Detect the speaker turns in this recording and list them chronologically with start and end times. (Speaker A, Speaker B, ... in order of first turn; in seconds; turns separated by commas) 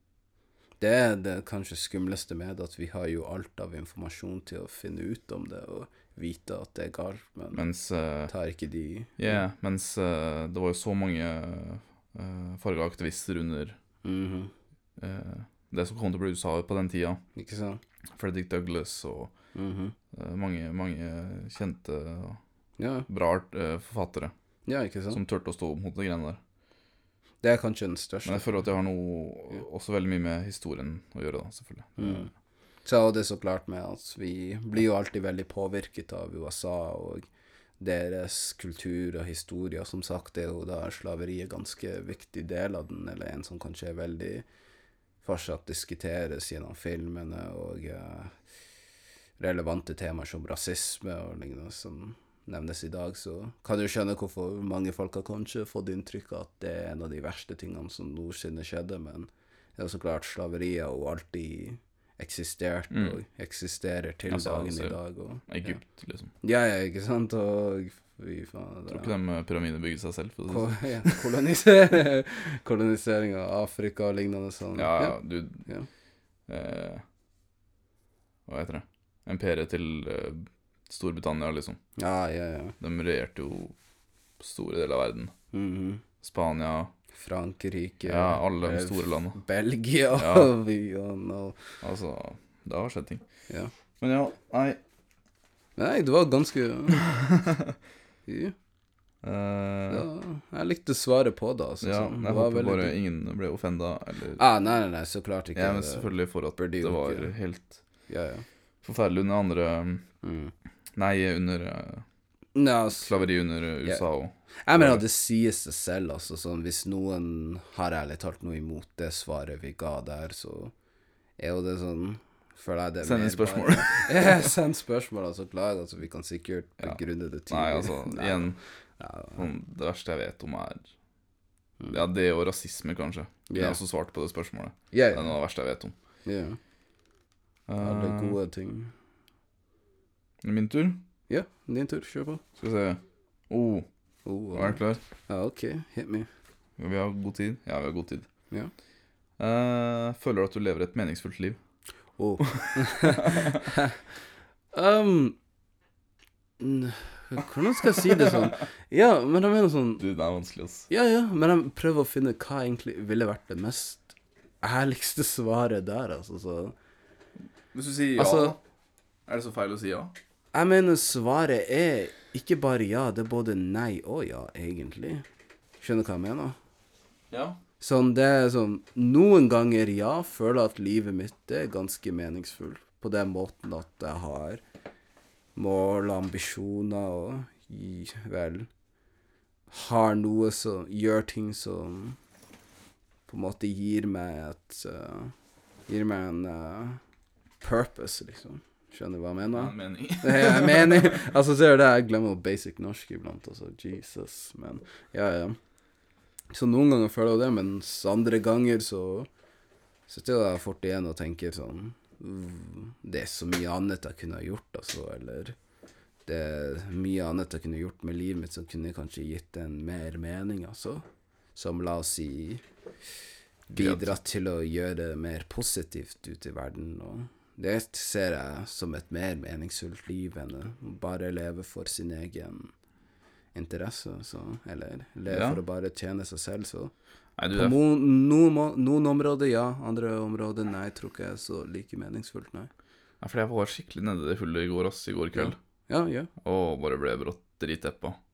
Speaker A: 0.8-7.6, Speaker B: 7.5-8.3, Speaker A: 8.3-9.4, Speaker B: 9.2-13.8, Speaker A: 14.0-14.5, Speaker B: 15.0-17.2, Speaker A: 17.4-17.8, Speaker B: 18.1-19.3, Speaker A: 19.6-19.9, Speaker B: 20.1-22.4, Speaker A: 22.8-23.1, Speaker B: 23.1-24.3, Speaker A: 24.7-25.2, Speaker B: 25.1-26.4, Speaker A: 27.4-28.5, Speaker B: 28.2-32.3, Speaker A: 32.0-32.3, Speaker A: 32.9-37.3, Speaker A: 37.8-44.5, Speaker A: 45.2-48.4, Speaker A: 49.4-65.8, Speaker B: 62.9-63.2, Speaker B: 64.3-65.0, Speaker B: 65.5-66.3, Speaker A: 66.4-69.1, Speaker B: 68.9-71.3, Speaker A: 70.5-75.9, Speaker B: 74.8-75.6, Speaker B: 76.5-77.0, Speaker B: 78.5-81.8, Speaker A: 82.0-82.8, Speaker B: 82.8-83.8, Speaker B: 84.4-85.3, Speaker A: 85.5-86.0, Speaker B: 86.2-86.9, Speaker A: 87.1-91.8, Speaker B: 88.1-89.4, Speaker B: 90.1-90.5, Speaker B: 91.8-93.2, Speaker B: 94.0-94.8, Speaker A: 95.8-97.1, Speaker B: 97.0-97.8, Speaker A: 98.3-98.5, Speaker B: 99.2-100.1, Speaker A: 99.9-102.9, Speaker B: 101.8-104.4, Speaker A: 104.4-107.3, Speaker B: 105.5-107.8, Speaker A: 108.1-108.5, Speaker B: 108.8-110.0, Speaker A: 110.2-110.5, Speaker B: 111.0-112.0, Speaker A: 112.5-113.2, Speaker B: 113.0-115.0, Speaker A: 114.7-120.7, Speaker A: 121.4-129.5, Speaker B: 123.0-124.5, Speaker B: 127.5-128.6, Speaker B: 129.3-130.9, Speaker B: 131.9-135.9, Speaker A: 133.5-133.8, Speaker A: 134.9-135.3, Speaker A: 136.2-136.6, Speaker B: 137.7-138.4, Speaker A: 137.8-138.9, Speaker B: 140.4-141.0, Speaker A: 141.3-142.4, Speaker B: 142.6-143.9, Speaker A: 144.2-146.3, Speaker B: 144.5-145.0, Speaker B: 146.8-148.3, Speaker B: 149.4-151.6, Speaker A: 152.2-154.0, Speaker B: 152.4-153.7, Speaker A: 154.7-155.4, Speaker A: 156.6-160.0, Speaker B: 160.0-160.9, Speaker A: 160.9-166.8, Speaker B: 167.7-168.6, Speaker A: 168.2-168.6, Speaker B: 169.3-170.2, Speaker A: 170.5-175.2, Speaker A: 175.8-176.6, Speaker B: 177.3-177.6, Speaker A: 177.8-184.6, Speaker A: 185.6-188.7, Speaker A: 189.7-192.2, Speaker A: 193.3-195.3, Speaker A: 195.9-197.0, Speaker A: 197.6-205.6, Speaker B: 199.6-201.3, Speaker A: 206.5-209.3, Speaker A: 210.1-215.6, Speaker A: 216.3-221.0, Speaker A: 221.6-222.6, Speaker A: 223.7-232.7, Speaker B: 223.7-224.2, Speaker A: 233.6-236.9, Speaker B: 235.3-235.6, Speaker B: 237.4-237.8, Speaker A: 237.5-242.7, Speaker B: 243.2-245.6, Speaker A: 245.3-246.3, Speaker B: 246.4-248.2